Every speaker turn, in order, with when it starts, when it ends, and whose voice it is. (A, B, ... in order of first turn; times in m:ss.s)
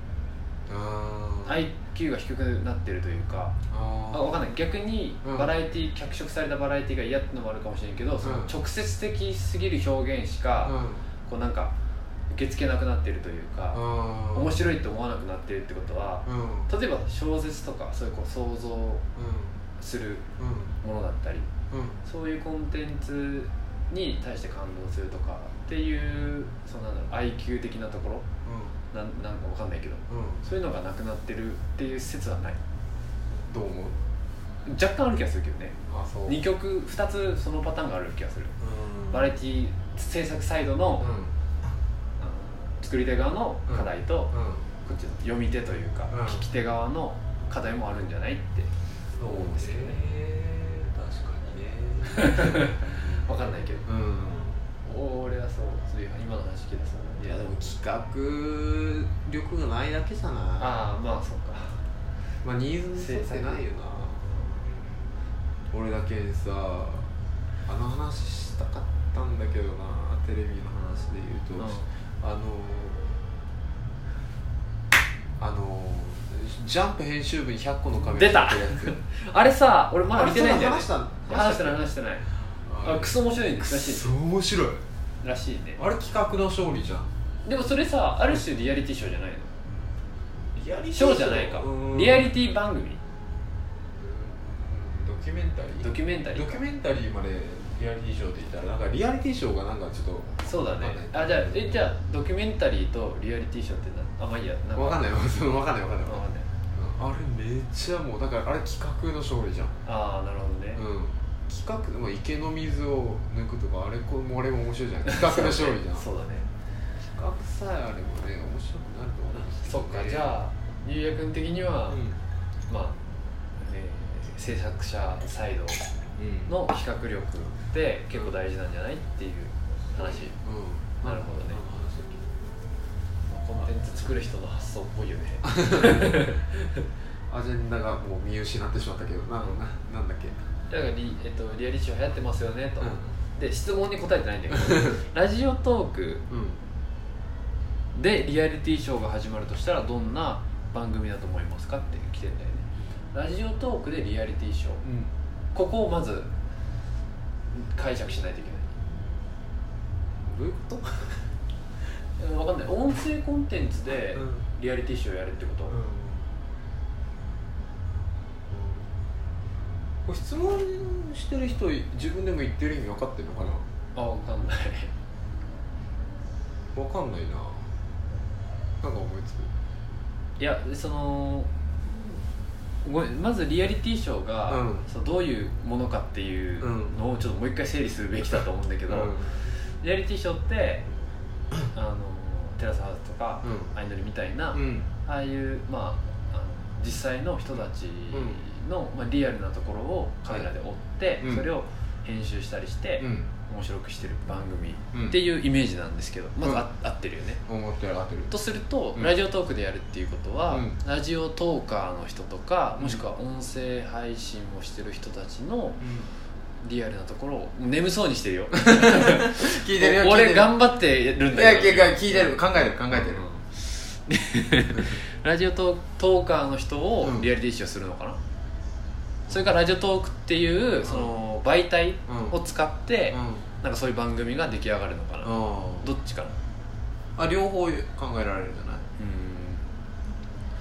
0:00.7-0:01.7 A
0:01.4-0:03.6 B
0:03.7-0:04.4 A
0:04.1-0:11.7 B
0:05.2-0:05.5 A
0:08.2-0:08.6 A
0:10.6-0:11.0 A
0:12.3-0:13.8 B
0:13.7-0:14.5 A
0:14.3-0:19.0 B
0:16.2-0:16.7 A
0:19.1-0:19.6 A
0:19.8-0:20.2 B
0:20.4-0:20.7 A
0:20.8-0:21.5 B
0:21.7-0:22.0 A
0:22.0-0:28.2 B
0:28.4-0:28.8 A
0:28.9-0:32.6 B
0:30.1-0:30.4 A
0:33.3-0:34.0 A
0:34.6-0:38.5 B
0:35.9-0:36.4 A
0:38.6-0:39.4 A
0:39.1-0:41.1 B
0:41.0-0:41.7 A
0:42.2-0:44.3 B
0:43.7-0:44.7 A
0:44.8-0:48.7 B
0:46.1-0:46.4 A
0:49.2-0:53.3 A
0:49.2-0:50.0 B
0:52.1-0:53.8 B
0:53.8-0:54.6 A
0:54.8-0:57.7 B
0:57.2-1:00.8 A
1:00.6-1:01.8 B
1:02.4-1:04.5 A
1:03.0-1:03.6 B
1:04.2-1:04.7 B
1:05.7-1:07.1 A
1:07.6-1:13.2 A
1:11.6-1:11.8 B
1:15.4-1:19.0 A
1:18.1-1:22.2 B
1:20.1-1:21.8 A
1:22.5-1:24.8 A
1:22.8-1:24.1 B
1:25.2-1:25.8 B
1:25.8-1:27.1 A
1:27.4-1:29.5 B
1:30.5-1:32.3 A
1:30.9-1:33.0 B
1:34.0-1:41.9 A
1:35.8-1:36.6 B
1:40.4-1:45.0 B
1:44.8-1:49.8 A
1:46.1-1:46.5 B
1:49.8-1:50.8 B
1:50.7-1:56.1 A
1:55.0-1:56.5 B
1:57.1-2:00.4 A
1:59.3-2:02.0 B
2:01.9-2:02.2 A
2:02.7-2:03.0 B
2:03.6-2:05.9 B
2:06.2-2:06.6 A
2:06.5-2:10.3 B
2:09.9-2:12.2 A
2:11.0-2:11.6 B
2:13.3-2:16.4 B
2:15.4-2:16.7 A
2:17.3-2:20.4 A
2:20.7-2:26.2 B
2:22.8-2:23.1 A
2:24.5-2:25.0 A
2:26.3-2:26.6 A
2:27.9-2:34.8 B
2:34.8-2:35.1 A
2:35.5-2:36.3 B
2:37.5-2:38.7 B
2:40.2-2:41.2 A
2:42.2-2:45.8 B
2:44.2-2:44.4 A
2:45.7-2:46.2 A
2:48.5-2:49.0 A
2:50.0-2:53.6 A
2:53.9-2:54.9 B
2:56.7-2:57.7 A
2:58.8-2:59.5 A
3:00.4-3:01.5 B
3:02.8-3:10.8 B
3:04.5-3:04.9 A
3:06.6-3:07.0 A
3:08.9-3:09.4 A
3:11.7-3:27.4 B
3:13.4-3:13.7 A
3:14.5-3:14.9 A
3:18.1-3:18.4 A
3:21.2-3:21.5 A
3:23.0-3:23.3 A
3:24.9-3:25.2 A
3:27.4-3:28.3 A
3:28.3-3:35.8 B
3:30.5-3:30.8 A
3:32.8-3:33.0 A
3:35.8-3:36.1 A
3:36.6-3:48.2 B
3:38.6-3:40.6 A
3:41.3-3:43.3 A
3:47.0-3:47.3 A
3:49.3-3:56.4 B
3:50.8-3:51.1 A
3:52.1-3:52.4 A
3:53.1-3:53.4 A
3:55.2-3:55.9 A
3:57.2-3:58.8 A
3:59.0-3:59.6 B